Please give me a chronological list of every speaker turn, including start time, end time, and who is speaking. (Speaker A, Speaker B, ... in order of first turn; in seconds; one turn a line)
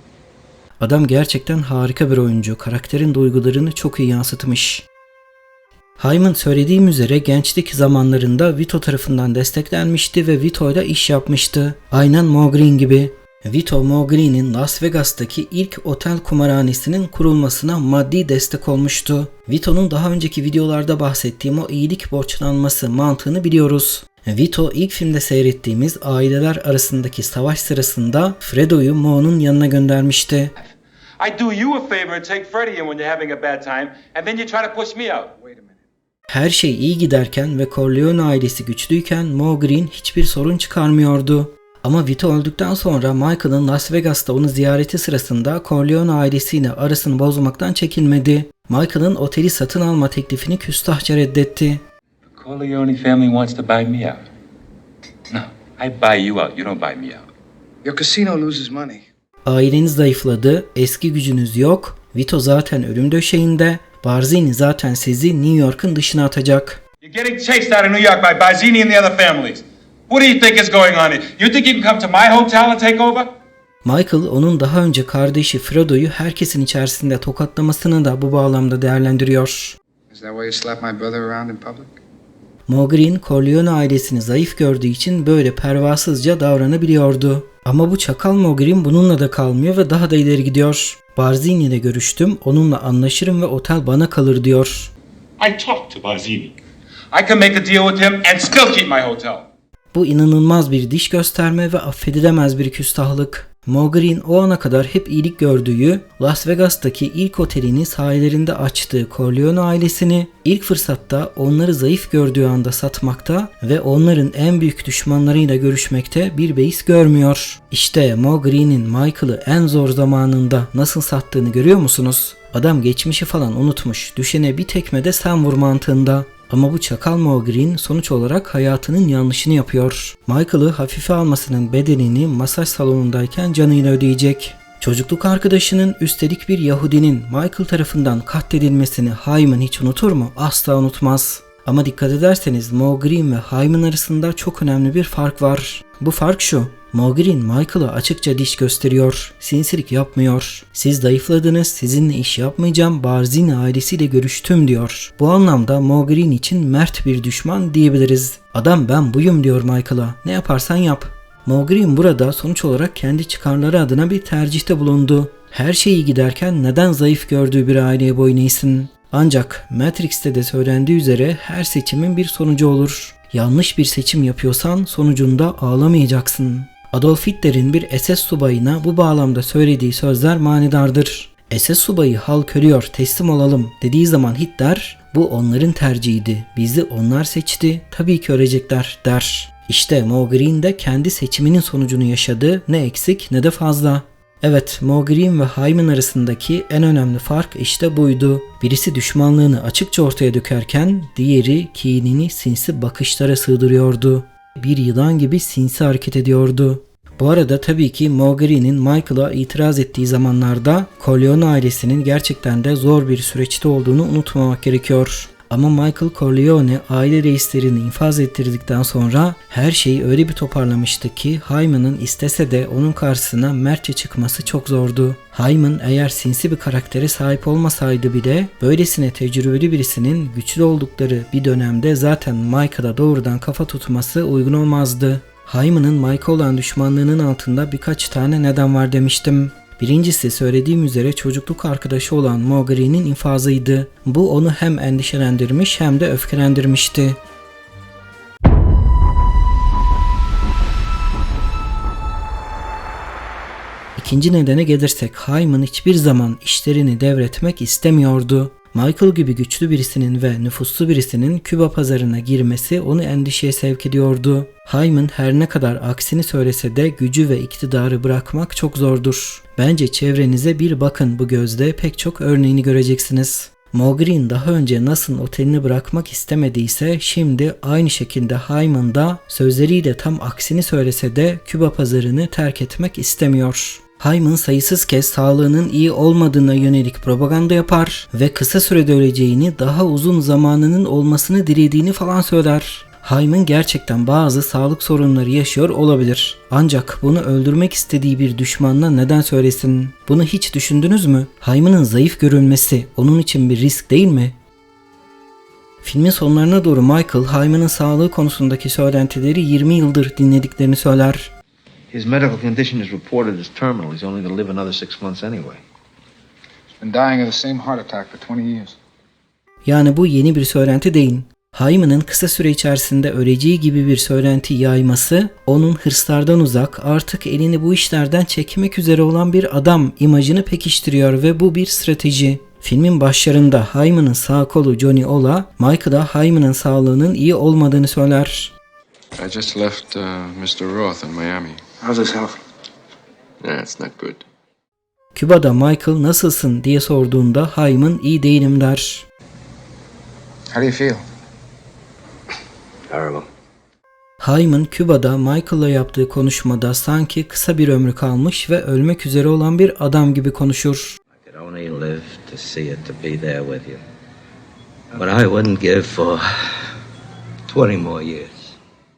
Speaker A: 0.8-4.9
Speaker A: 6.0-30.5
Speaker B: 30.6-35.3
Speaker C: 35.4-35.7
Speaker A: 36.3-51.8
Speaker B: 52.3-54.2
Speaker B: 55.3-57.2
Speaker C: 57.8-59.0
Speaker A: 59.4-66.8
Speaker B: 67.0-73.3
Speaker A: 73.8-79.8
Speaker C: 80.1-82.0
Speaker A: 82.7-94.9
Speaker B: 95.4-96.5
Speaker B: 97.1-99.5
Speaker A: 99.9-247.2
Speaker A: 254.0-304.4
Speaker A: 305.8-311.3
Speaker D: 311.9-315.6
Speaker C: 316.8-318.8
Speaker A: 319.6-338.5
Speaker E: 339.2-341.6
Speaker C: 341.8-342.4
Speaker E: 343.4-344.2
Speaker A: 345.1-349.1
Speaker C: 350.5-351.0
Speaker F: 352.9-353.3
Speaker A: 354.2-361.0
Speaker F: 361.1-363.8
Speaker F: 364.9-366.7
Speaker F: 367.5-368.6